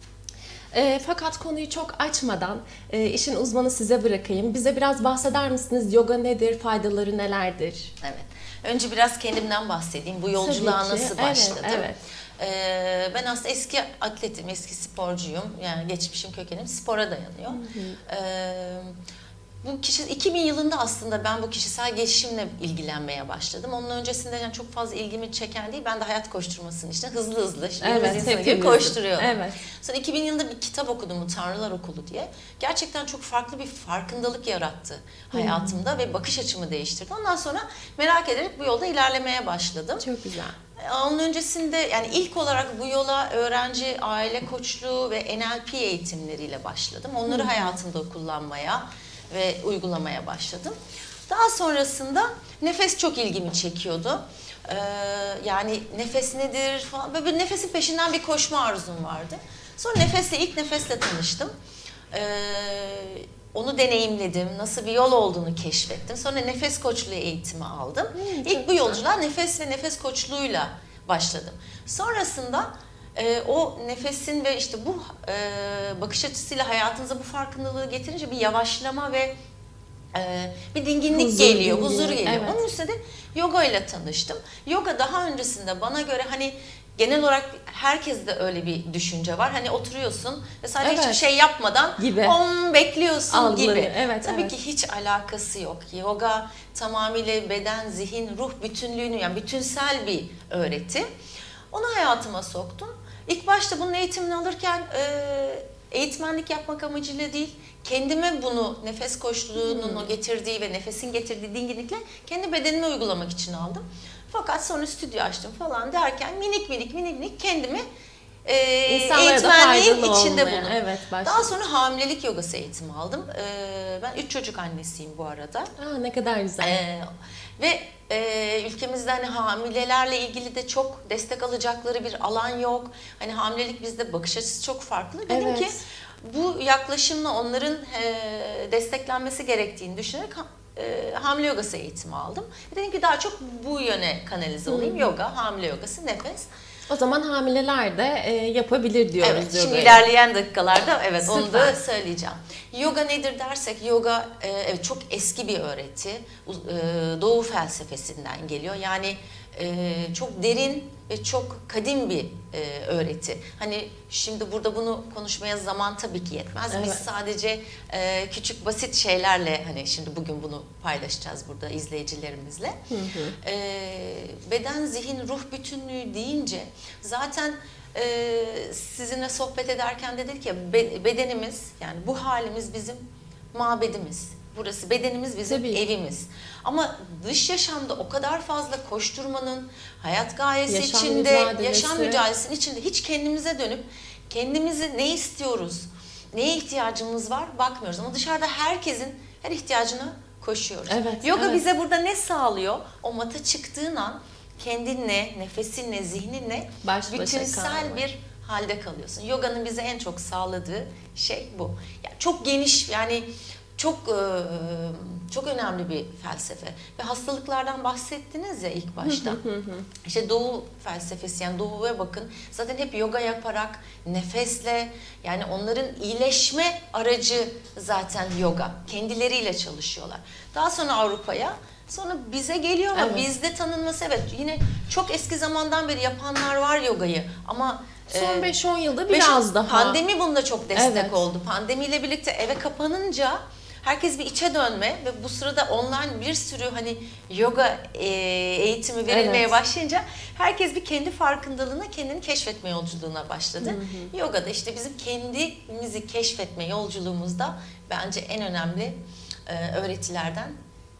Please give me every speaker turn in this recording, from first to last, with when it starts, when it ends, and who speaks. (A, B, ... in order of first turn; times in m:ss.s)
0:00.7-0:07.9 A
0:08.0-0:18.9 B
0:10.4-0:12.0 A
0:17.5-0:18.0 A
0:19.6-0:40.0 B
0:27.8-0:29.6 A
0:35.3-0:35.8 A
0:40.0-0:40.6 A
0:40.8-0:50.8 B
0:47.3-0:47.8 A
0:51.3-1:01.5 B
1:02.1-1:19.3 B
1:08.2-1:09.0 A
1:20.1-1:41.1 B
1:21.1-1:22.6 A
1:30.8-1:31.2 A
1:32.0-1:32.4 A
1:33.3-1:34.5 A
1:41.7-1:57.8 B
1:49.6-1:50.1 A
1:58.4-2:05.7 B
1:58.9-2:01.6 A
2:05.8-2:06.8 A
2:06.6-2:07.0 B
2:07.6-2:26.5 B
2:15.3-2:15.8 A
2:24.7-2:25.1 A
2:26.9-2:30.0 A
2:29.2-2:52.8 B
2:31.2-2:31.8 A
2:46.7-2:47.0 A
2:52.9-2:53.4 A
2:53.4-3:03.0 B
3:03.5-3:39.4 B
3:05.4-3:05.8 A
3:10.7-3:12.2 A
3:20.9-3:21.6 A
3:26.8-3:28.0 A
3:39.0-3:39.9 A
3:40.0-3:58.5 B
3:52.9-3:53.3 A
3:58.1-4:00.0 A
3:59.1-4:20.6 B
4:00.8-4:01.2 A
4:09.1-4:09.5 A
4:13.6-4:14.1 A